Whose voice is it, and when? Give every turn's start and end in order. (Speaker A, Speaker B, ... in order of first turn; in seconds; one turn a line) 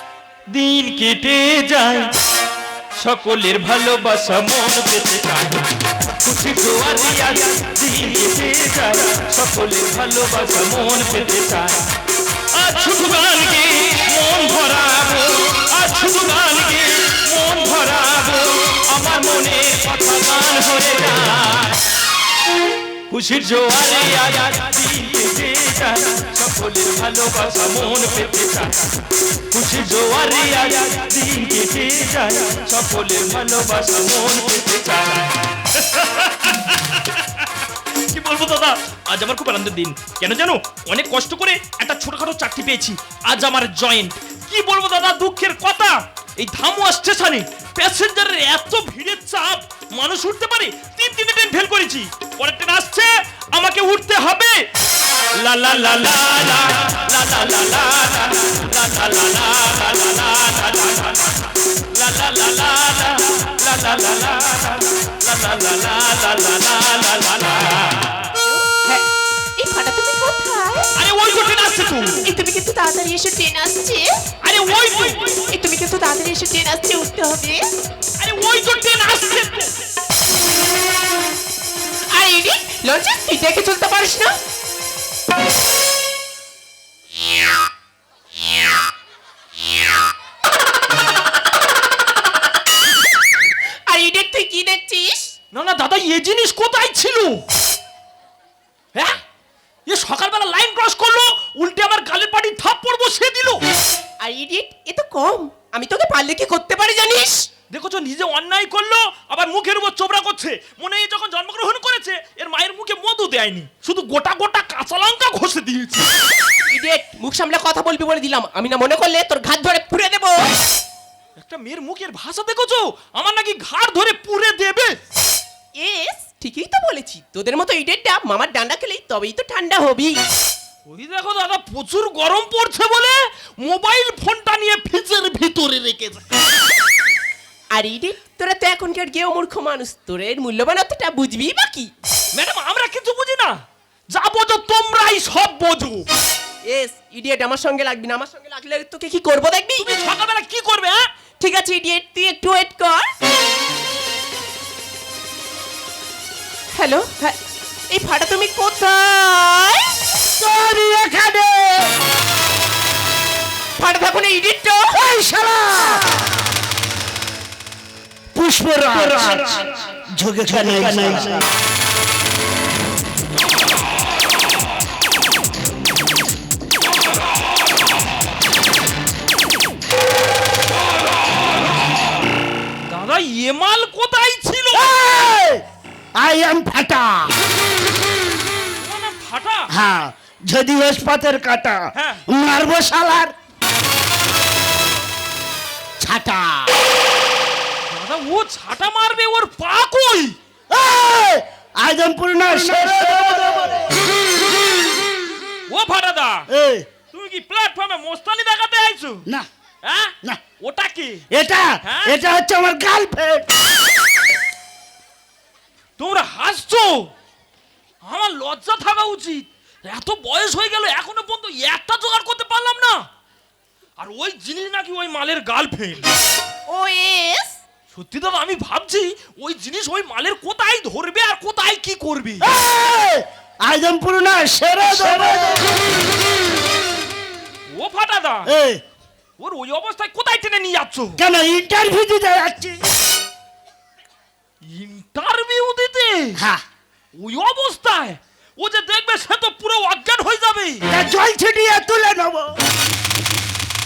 Speaker A: 0.5-2.1
Speaker A: 3.0-5.6
Speaker A: 6.2-11.8
Speaker A: 12.5-21.8
Speaker A: 23.1-28.8
Speaker A: 29.5-37.5
Speaker A: 38.1-54.6
Speaker A: 55.4-61.3
Speaker A: 61.9-68.2
Speaker B: 68.4-69.0
Speaker B: 69.6-70.9
Speaker A: 71.0-72.2
Speaker B: 72.2-74.2
Speaker A: 74.4-75.5
Speaker B: 75.5-77.7
Speaker A: 78.2-79.7
Speaker B: 82.1-84.4
Speaker B: 93.8-95.3
Speaker A: 95.5-97.4
Speaker A: 98.9-99.2
Speaker A: 99.8-103.6
Speaker B: 104.2-107.5
Speaker A: 107.7-116.1
Speaker B: 116.7-120.5
Speaker A: 121.4-125.0
Speaker B: 125.8-130.2
Speaker A: 130.8-136.2
Speaker B: 137.7-141.9
Speaker A: 142.3-143.6
Speaker A: 144.1-146.1
Speaker B: 146.7-149.9
Speaker A: 149.8-151.0
Speaker B: 151.4-153.1
Speaker B: 156.7-157.4
Speaker B: 157.9-160.0
Speaker C: 160.3-161.9
Speaker B: 163.8-165.0
Speaker C: 164.9-166.1
Speaker C: 168.3-171.5
Speaker A: 182.8-184.9
Speaker C: 184.7-185.6
Speaker C: 186.2-187.4
Speaker A: 188.8-189.7
Speaker C: 189.7-193.3
Speaker A: 191.9-192.2
Speaker C: 196.0-196.7
Speaker A: 197.9-200.3
Speaker C: 200.7-203.9
Speaker A: 205.7-206.5
Speaker C: 206.5-206.8
Speaker A: 207.1-209.2
Speaker A: 209.8-211.2
Speaker C: 211.3-213.4
Speaker A: 211.8-212.2
Speaker A: 216.0-217.1
Speaker A: 218.0-223.1
Speaker A: 224.0-226.1
Speaker B: 226.7-227.6
Speaker A: 227.9-232.5
Speaker C: 232.4-235.6
Speaker A: 234.9-235.6
Speaker A: 237.7-238.5
Speaker C: 238.4-238.8
Speaker A: 239.4-241.2
Speaker C: 241.2-242.8
Speaker A: 244.7-246.4
Speaker C: 246.3-246.6
Speaker A: 247.1-250.8
Speaker C: 250.9-252.5